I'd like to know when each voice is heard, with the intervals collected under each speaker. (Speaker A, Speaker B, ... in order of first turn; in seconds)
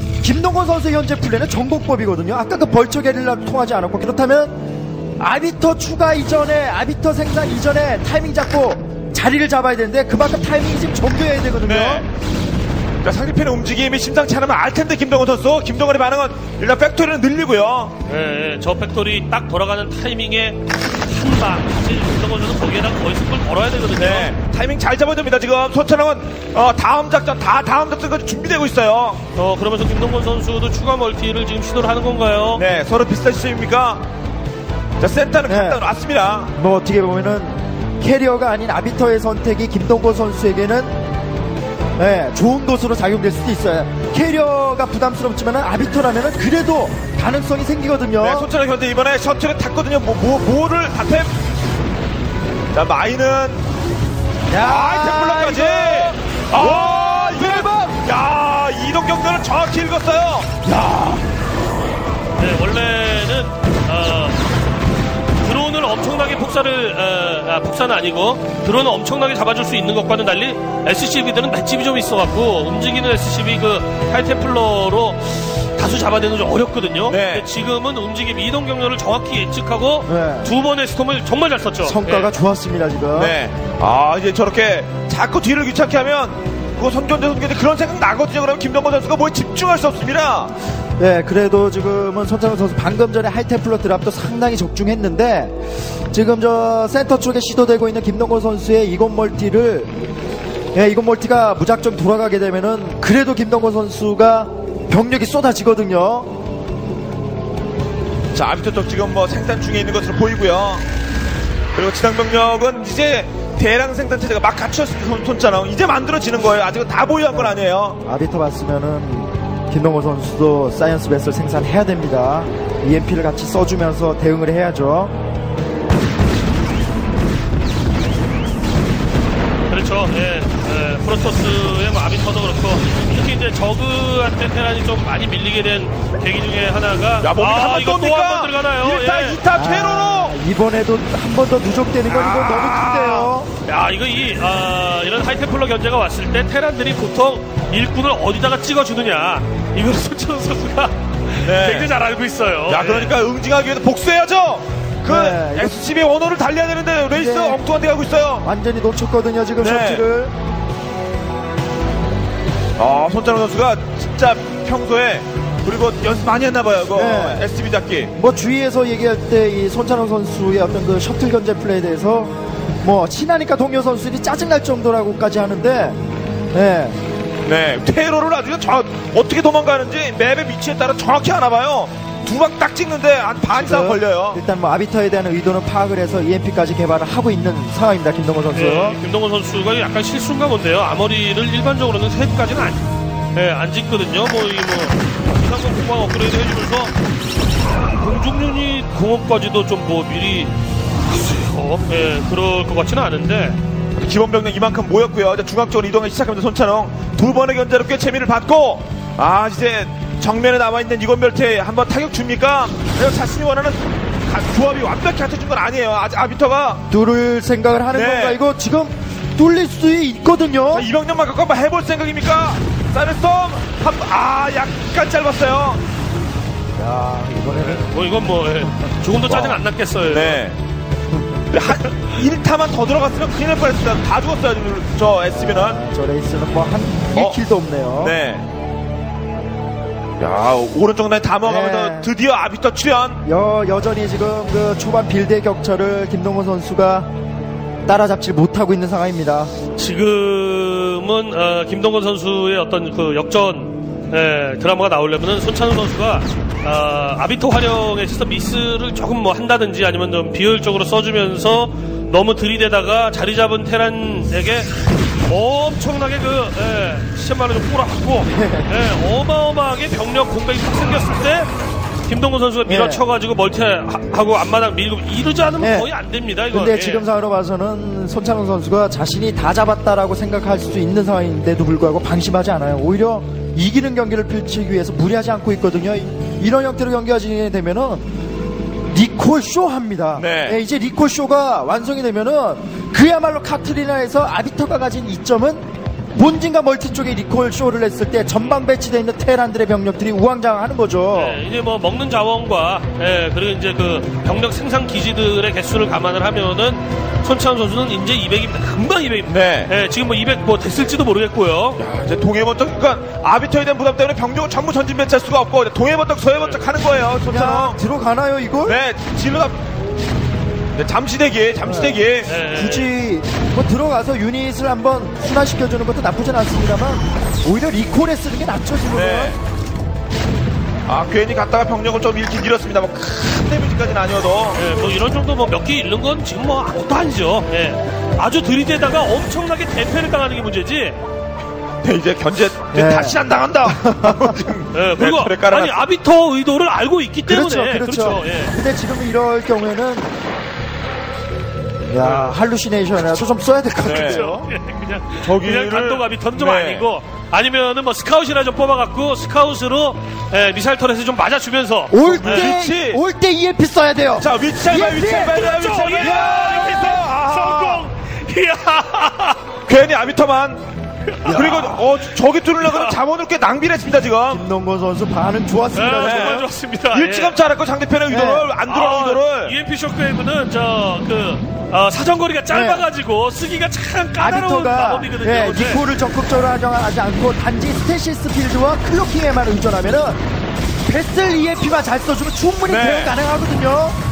Speaker A: 0.2-4.6, 5.2-12.0, 35.5-35.8, 36.5-41.0, 42.0-48.5, 54.5-58.0, 60.6-61.2, 80.1-80.5, 81.8-83.3, 91.0-95.6, 96.1-99.9, 100.7-106.3, 118.0-125.1, 139.5-143.5, 155.1-155.8, 157.1-157.6, 158.4-160.3, 166.9-167.4, 168.1-176.0, 176.5-177.0, 183.5-189.0, 216.9-220.9, 226.8-227.9, 235.3-238.2, 241.4-242.1, 243.2-247.1, 247.8-249.5, 268.3-268.7, 272.6-273.0, 275.6-275.9, 276.5-288.0, 288.9-301.4, 317.2-318.8, 321.6-329.4, 342.7-344.3, 347.2-350.1, 351.9-354.5, 361.9-365.4, 371.2-371.8, 374.3-376.5, 378.1-378.5, 382.5-382.8, 384.2-390.2, 390.9-394.0
Speaker B: 11.6-12.1, 13.0-17.9, 23.9-29.2, 32.5-34.0, 35.0-36.5, 48.2-51.3, 52.7-53.6, 54.6-60.5, 77.1-77.5, 83.1-90.5, 108.3-110.8, 111.7-118.0, 137.2-140.3, 142.1-143.3, 151.4-151.9, 152.7-158.5, 159.6-160.0, 162.8-168.1, 177.4-184.4, 204.0-216.8, 217.9-218.4, 220.7-225.8, 229.2-230.6, 231.5-235.8, 238.0-238.4, 240.2-243.2, 290.1-290.6, 309.3-309.7, 311.8-317.8, 318.6-319.6, 320.8-322.3, 328.9-329.4, 330.9-334.6, 341.8-345.8, 353.8-354.3, 355.2-356.9, 362.0-363.0, 364.1-367.9, 369.7-370.6, 371.3-374.4, 376.0-379.6, 392.6-393.1
Speaker C: 18.1-24.3, 29.4-32.6, 62.4-64.4, 65.4-82.3, 129.7-139.4, 143.7-153.2, 188.5-196.9, 197.9-200.5, 201.0-203.6, 227.6-230.4, 249.8-264.7, 265.3-271.5, 272.1-277.1, 301.1-311.8, 316.3-316.6, 322.2-322.9, 334.5-341.0, 344.7-348.5, 353.8-362.6, 365.0-369.4, 371.2-371.4, 372.6-373.0, 375.7-377.4, 378.6-385.8